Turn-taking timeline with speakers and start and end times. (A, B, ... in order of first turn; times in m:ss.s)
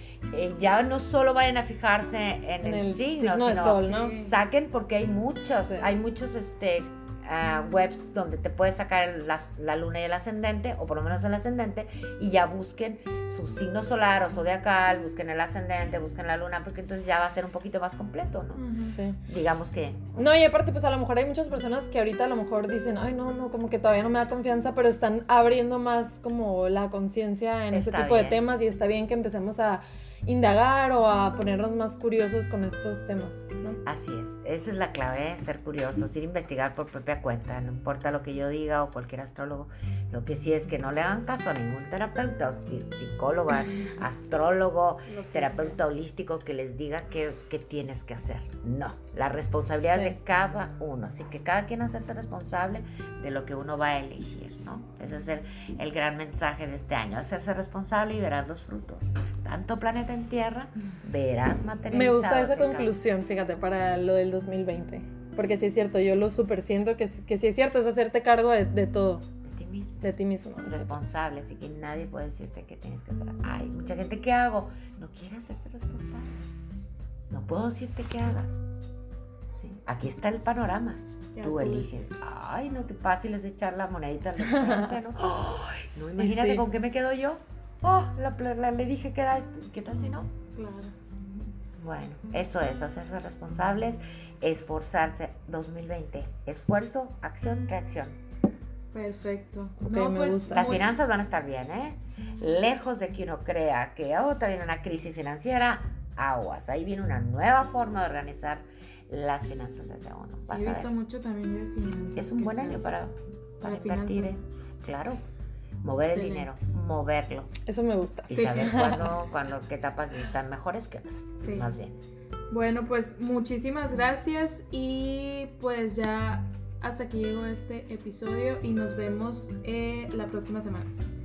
0:00.3-0:18.7 A
0:02.6-0:04.1 B
0:03.9-0:04.4 C
0:05.6-0:05.9 B
0:18.5-0:19.0 C
0:18.9-0:19.2 B
0:19.2-0:20.3 A
0:20.2-0:33.8 B
0:27.7-0:28.4 A
0:33.8-1:02.9 A
0:45.0-0:45.8 C
0:49.8-0:50.2 B
1:01.9-1:09.2 B
1:09.4-1:16.4 A
1:10.0-1:10.9 B
1:17.3-1:18.6 A
1:19.5-1:30.3 A
1:21.3-1:22.0 C
1:24.5-1:24.9 B
1:26.2-1:26.6 B
1:30.5-1:30.9 C
1:31.8-1:38.2 A
1:38.9-1:40.8 C
1:39.8-1:40.7 B
1:40.5-1:50.9 A
1:50.5-1:52.9 C
1:52.2-1:55.2 A
1:53.6-1:54.4 C
1:55.8-1:57.5 A
1:56.1-1:56.5 C
1:57.7-1:59.1 B
1:58.3-2:02.0 A
1:58.3-1:58.9 C
2:01.4-2:01.7 C
2:02.5-2:10.9 C